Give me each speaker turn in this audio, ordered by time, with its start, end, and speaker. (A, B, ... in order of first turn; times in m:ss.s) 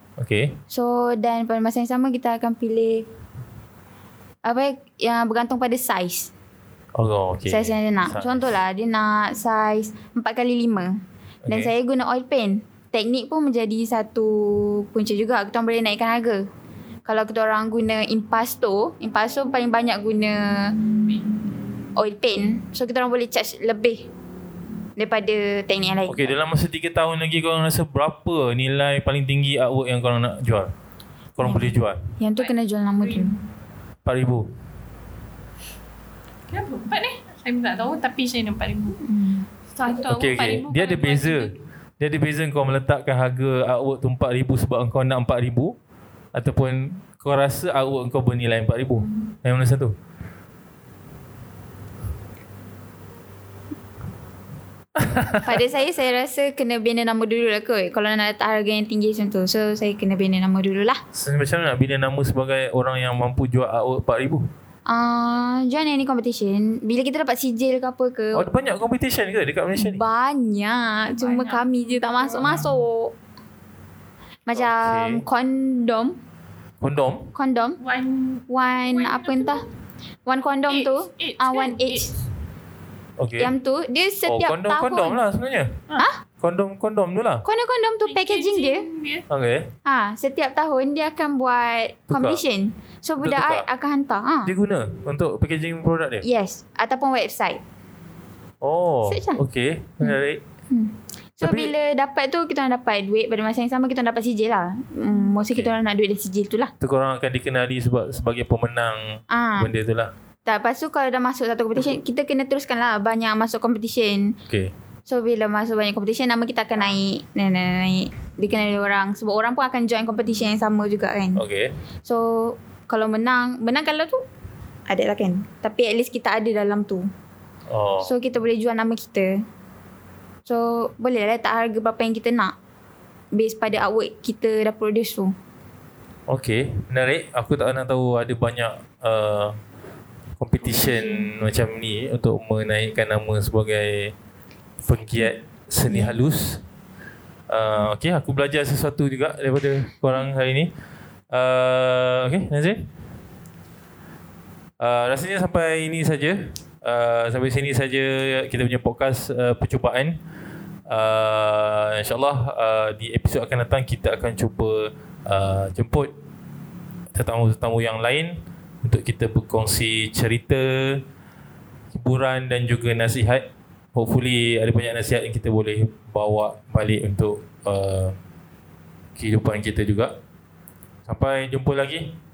0:00.2-0:00.6 A
0:00.7-0:03.0 B
0:04.4-0:06.3 B
0:06.9-0:08.4 A
0:07.5-0:16.4 B
0:11.4-0:11.7 A
0:17.0-0:20.7 B
0:22.0-0:24.1 B
0:25.0-0:26.3 B
0:26.1-0:30.7 A
0:31.4-0:32.0 A
0:32.2-0:33.4 B
0:33.0-0:33.3 C
0:34.0-0:34.5 A
0:36.5-0:39.0 C
0:39.0-0:39.5 B
0:39.7-0:41.5 C
0:40.1-0:45.8 A
0:46.3-0:49.9 A
0:55.0-0:55.4 A
0:55.4-1:01.0 B
1:01.1-1:04.4 A
1:04.9-1:08.5 B
1:08.3-1:10.0 A
1:09.8-1:13.1 B
1:11.2-1:12.6 C
1:14.4-1:16.2 B
1:14.5-1:15.2 A
1:16.8-1:17.3 A
1:17.3-1:17.8 B
1:17.8-1:19.6 C
1:18.5-1:19.6 B
1:20.2-1:22.1 B
1:20.7-1:22.1 C
1:23.2-1:23.5 A
1:23.4-1:25.2 B
1:24.2-1:25.8 A
1:26.4-1:27.4 A
1:27.4-1:28.8 B
1:28.0-1:29.2 C
1:29.3-1:29.7 A
1:29.8-1:34.5 B
1:32.1-1:32.4 A
1:33.2-1:33.6 A
1:34.4-1:36.2 A
1:36.2-1:37.6 B
1:38.6-1:40.4 A
1:39.1-1:39.4 B
1:40.7-1:46.7 B
1:41.4-1:41.7 A
1:46.8-1:50.1 A
1:49.3-1:49.7 B
1:50.4-1:54.3 B
1:55.1-2:01.4 B
2:01.4-2:01.7 A
2:02.0-2:04.2 B
2:04.9-2:07.1 B
2:07.7-2:08.1 A
2:08.0-2:09.4 B
2:10.4-2:12.5 B
2:13.3-2:15.3 B
2:16.3-2:19.6 A
2:20.4-2:24.1 A
2:24.8-2:26.6 A
2:27.5-2:30.7 A
2:31.3-2:32.9 A
2:34.8-2:40.2 A
2:40.9-2:46.1 A
2:47.1-2:51.0 A
2:51.9-2:58.2 A
2:59.2-3:00.1 A
3:01.0-3:02.2 A